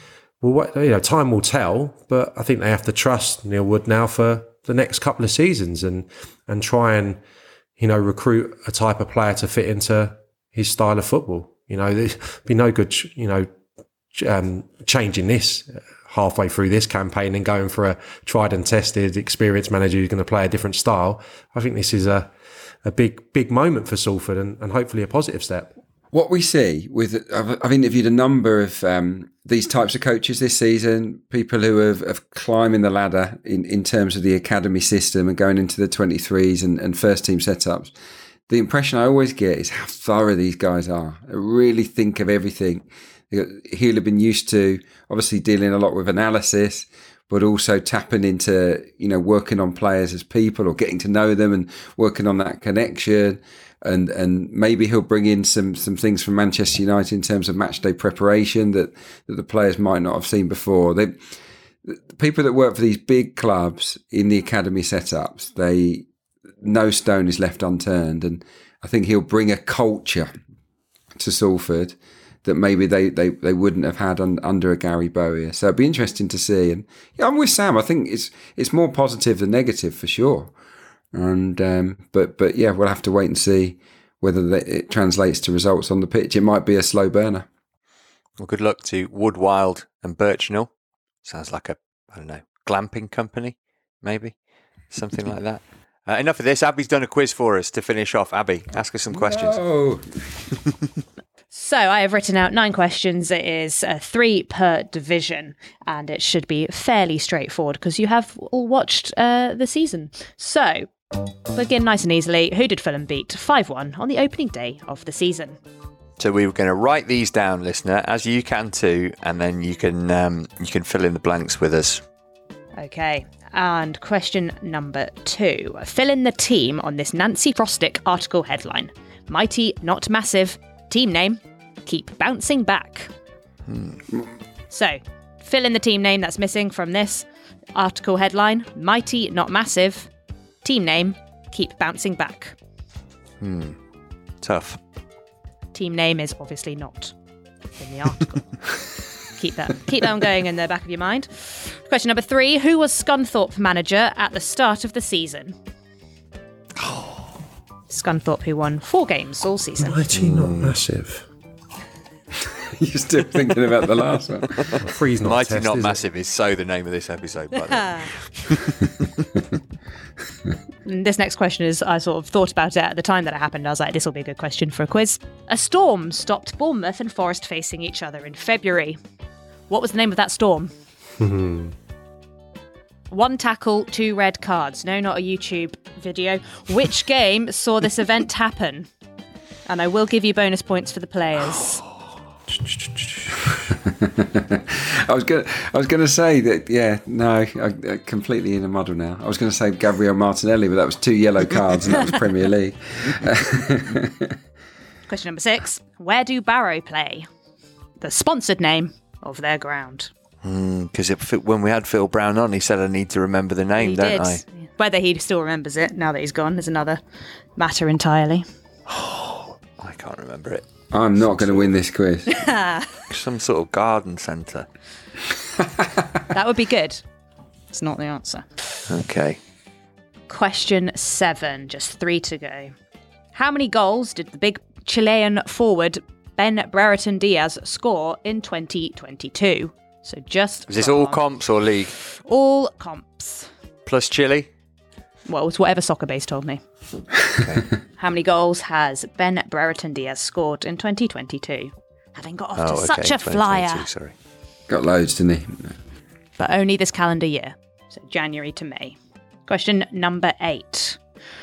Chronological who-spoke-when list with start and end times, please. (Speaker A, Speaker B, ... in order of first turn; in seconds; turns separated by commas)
Speaker A: 0.4-7.2, Speaker A: 7.8-13.5, Speaker A: 14.1-22.3, Speaker A: 22.8-25.7, Speaker B: 26.1-37.9, Speaker B: 38.5-61.1, Speaker B: 61.9-66.1, Speaker B: 66.6-70.3, Speaker B: 71.2-80.5, Speaker B: 81.1-87.5, Speaker C: 88.4-90.7, Speaker C: 91.2-94.3, Speaker C: 94.9-99.6, Speaker B: 99.1-100.4, Speaker D: 101.5-110.9, Speaker D: 111.5-115.6, Speaker C: 116.2-122.0, Speaker D: 122.8-133.1, Speaker C: 133.7-134.0, Speaker D: 134.7-140.1, Speaker D: 140.6-142.5, Speaker C: 143.4-143.8, Speaker C: 144.4-144.8, Speaker D: 145.7-147.1, Speaker D: 147.8-148.5, Speaker D: 149.4-155.6, Speaker D: 157.9-160.0, Speaker A: 159.8-161.2, Speaker C: 160.1-160.7, Speaker B: 162.4-164.9, Speaker A: 164.8-166.0, Speaker C: 165.2-168.9, Speaker D: 167.6-168.1, Speaker D: 170.8-179.0, Speaker D: 179.7-180.7, Speaker A: 181.2-181.7, Speaker D: 183.1-188.9, Speaker D: 189.7-191.8, Speaker A: 192.7-193.2, Speaker B: 193.7-204.3, Speaker D: 205.1-207.3, Speaker D: 208.0-210.1, Speaker C: 210.4-214.4, Speaker D: 213.8-217.0, Speaker D: 217.6-218.4, Speaker C: 218.9-220.7, Speaker B: 220.9-222.3, Speaker C: 221.4-221.7, Speaker D: 222.3-223.0, Speaker C: 223.1-224.7, Speaker D: 226.3-227.0, Speaker D: 227.7-228.8, Speaker C: 228.9-229.4, Speaker D: 230.3-232.7, Speaker D: 233.3-241.2, Speaker C: 240.7-241.9, Speaker D: 242.0-243.5, Speaker C: 243.8-244.5, Speaker D: 245.2-246.6, Speaker D: 248.0-253.9, Speaker C: 252.5-254.1, Speaker B: 254.7-255.8, Speaker D: 256.4-261.0